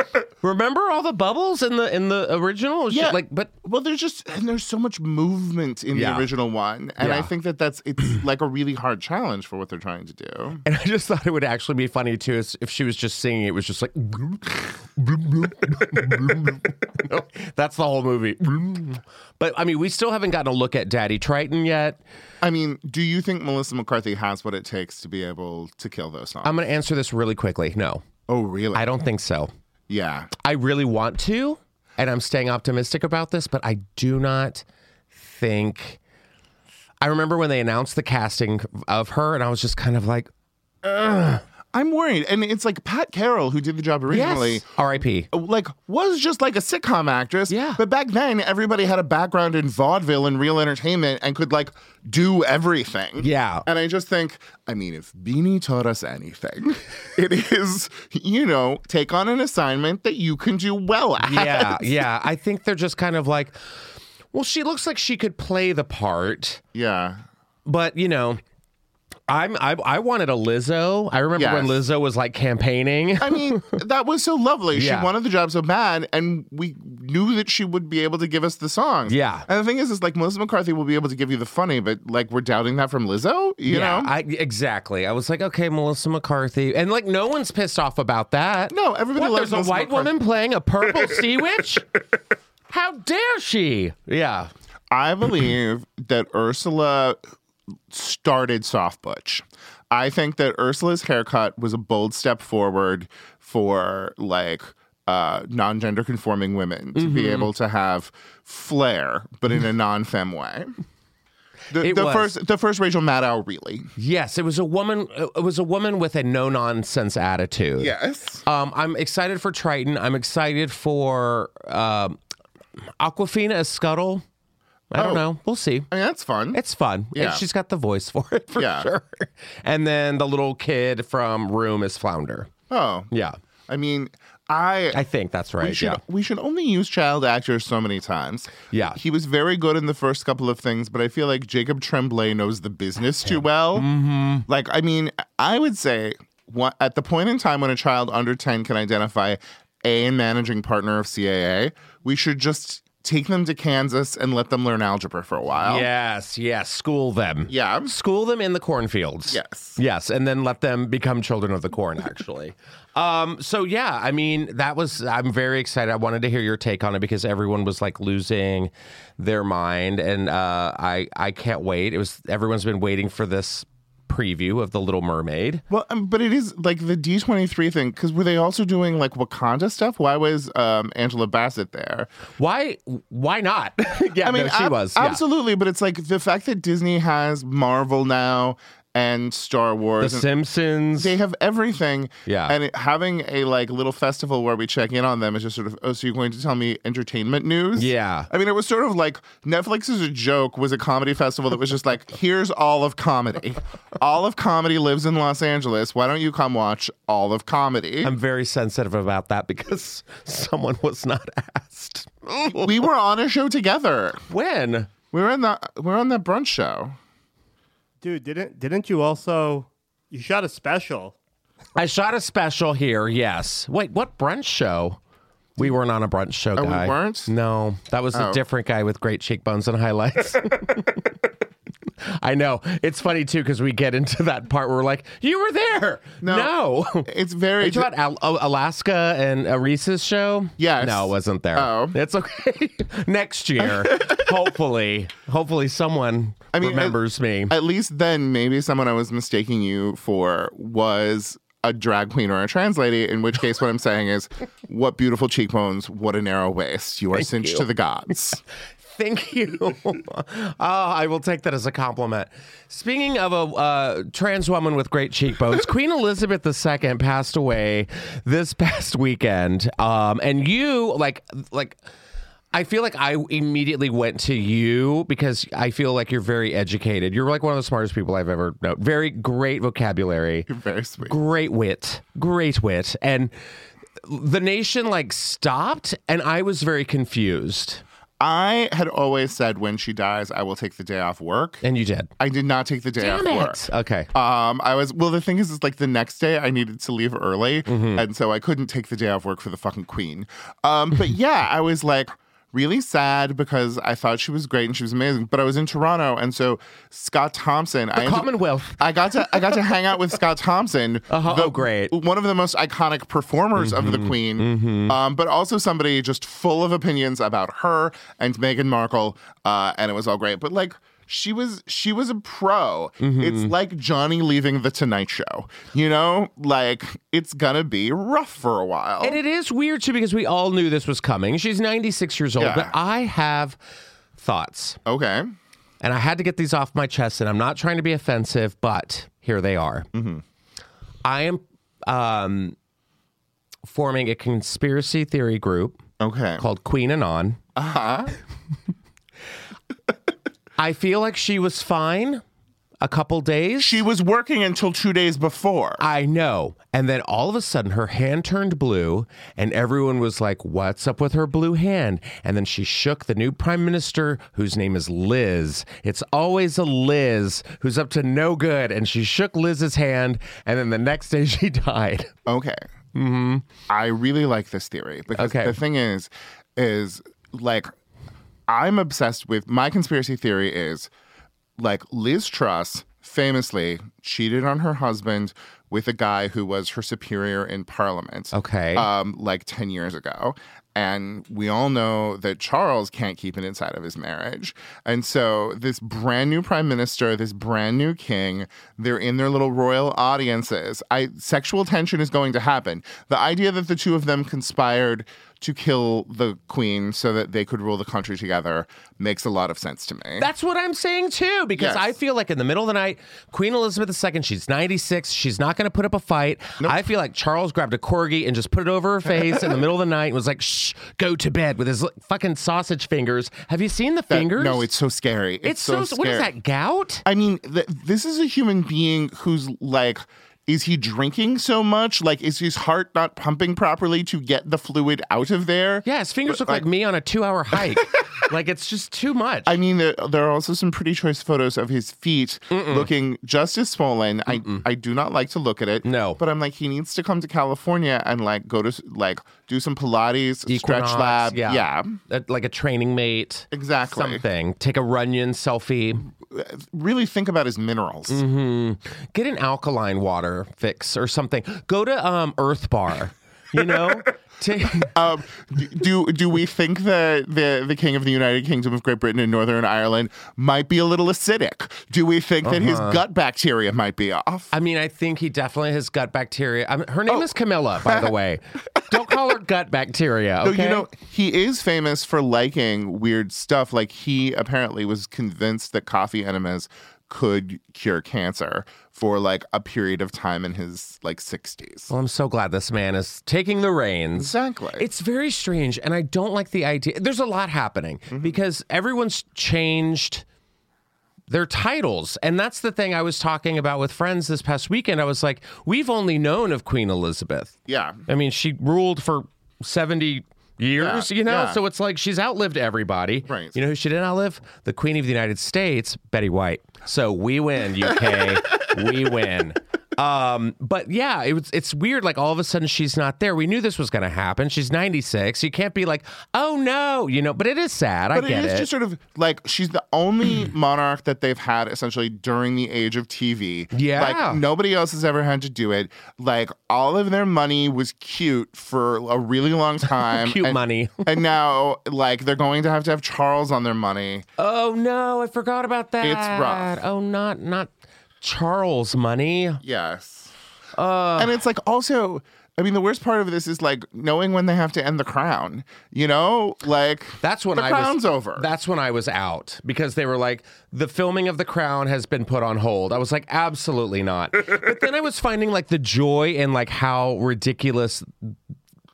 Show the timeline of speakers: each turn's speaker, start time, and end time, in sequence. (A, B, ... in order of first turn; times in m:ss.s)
0:00.4-0:03.5 A
0:02.9-0:10.6 B
0:05.9-0:06.3 A
0:07.0-0:07.3 A
0:10.6-0:22.0 A
0:22.4-0:26.6 B
0:26.4-0:28.0 A
0:28.3-0:28.9 B
0:28.8-0:29.5 A
0:29.9-0:30.3 B
0:30.4-0:36.0 A
0:37.0-0:40.3 A
0:40.8-0:41.4 A
0:41.7-0:44.6 B
0:44.1-0:45.3 A
0:45.3-1:02.1 B
0:47.5-0:47.8 A
0:53.2-0:53.6 A
1:01.2-1:06.6 A
1:06.7-1:07.2 B
1:07.6-1:08.4 A
1:09.3-1:13.8 A
1:11.4-1:11.8 B
1:13.2-1:24.1 B
1:14.7-1:15.1 A
1:19.1-1:19.4 A
1:23.7-1:31.9 A
1:28.7-1:30.1 B
1:32.7-1:34.5 A
1:34.9-1:37.2 B
1:37.9-1:50.7 B
1:47.0-1:47.5 A
1:51.7-1:53.9 B
1:51.8-1:52.3 A
1:54.0-1:57.9 A
1:57.8-1:58.4 B
1:58.4-2:02.2 A
2:03.0-2:04.2 A
2:04.9-2:05.9 A
2:05.0-2:05.2 B
2:05.9-2:06.6 B
2:06.5-2:12.5 A
2:07.1-2:07.4 B
2:08.5-2:08.9 B
2:12.7-2:13.1 B
2:13.1-2:13.4 A
2:13.7-2:15.0 B
2:14.9-2:16.0 A
2:15.6-2:23.9 B
2:18.7-2:19.0 A
2:23.3-2:24.4 A
2:24.5-2:35.9 B
2:35.6-2:55.6 A
2:37.5-2:37.9 B
2:39.3-2:39.8 B
2:55.7-3:02.1 B
3:02.4-3:05.2 A
3:04.2-3:10.3 B
3:10.0-3:11.1 A
3:10.9-3:28.1 B
3:12.2-3:12.6 A
3:17.8-3:18.3 A
3:28.0-3:32.8 A
3:32.5-3:34.2 B
3:34.3-3:34.9 A
3:35.1-3:37.0 B
3:38.0-3:41.1 C
3:41.8-3:45.0 A
3:45.6-3:51.1 A
3:46.6-3:47.3 B
3:48.1-3:48.4 B
3:52.0-4:07.6 A
3:56.2-3:56.5 B
3:57.0-3:57.9 B
4:00.6-4:02.0 B
4:03.6-4:04.3 B
4:06.5-4:07.0 B
4:07.5-4:18.4 B
4:17.4-4:17.6 A
4:18.8-4:31.8 A
4:32.5-4:40.5 A
4:40.5-4:41.2 B
4:41.0-4:43.3 A
4:44.0-4:47.8 A
4:48.2-4:51.6 B
4:51.6-4:52.1 A
4:52.2-4:53.6 B
4:53.0-4:54.1 A
4:54.1-5:29.2 B
4:57.7-4:58.0 A
5:08.0-5:09.5 A
5:11.1-5:11.9 A
5:13.6-5:15.0 A
5:23.0-5:23.5 A
5:29.0-5:33.6 A
5:32.4-5:32.7 B
5:34.2-5:34.8 A
5:34.9-5:35.3 B
5:35.8-5:39.9 A
5:39.9-5:40.2 B
5:41.0-5:42.6 A
5:43.6-5:45.8 A
5:46.0-5:46.4 B
5:46.4-5:47.4 A
5:47.6-5:48.2 B
5:50.6-5:52.2 A
5:52.8-5:53.8 A
5:53.6-5:55.8 B
5:55.8-6:12.1 A
6:12.2-6:12.6 B
6:12.9-6:13.4 A
6:13.7-6:17.7 B
6:15.2-6:15.6 A
6:18.5-6:20.9 B
6:21.6-6:50.3 B
6:28.3-6:28.9 A
6:50.2-7:04.7 A
6:51.6-6:51.9 B
7:04.1-7:06.3 B
7:05.4-7:07.0 A
7:07.0-7:16.6 B
7:15.8-7:19.6 A
7:19.4-7:32.0 B
7:22.5-7:22.9 A
7:24.3-7:24.6 A
7:25.8-7:26.2 A
7:30.5-7:36.1 A
7:33.5-7:34.2 B
7:36.2-7:38.2 B
7:38.1-7:44.9 A
7:44.8-7:54.5 B
7:52.4-7:53.0 A
7:54.5-8:00.9 A
8:00.4-8:11.9 B
8:11.9-8:20.2 A
8:14.2-8:14.9 B
8:18.1-8:18.4 B
8:21.3-8:27.5 A
8:27.7-8:28.0 B
8:28.1-8:48.7 A
8:30.8-8:31.6 B
8:33.2-8:33.6 B
8:48.1-9:04.2 B
8:53.7-8:54.4 A
9:00.0-9:01.2 A
9:04.4-9:09.6 A
9:06.0-9:06.8 B
9:09.6-9:10.3 B
9:10.7-9:11.4 A
9:11.2-9:18.5 B
9:17.2-9:28.4 A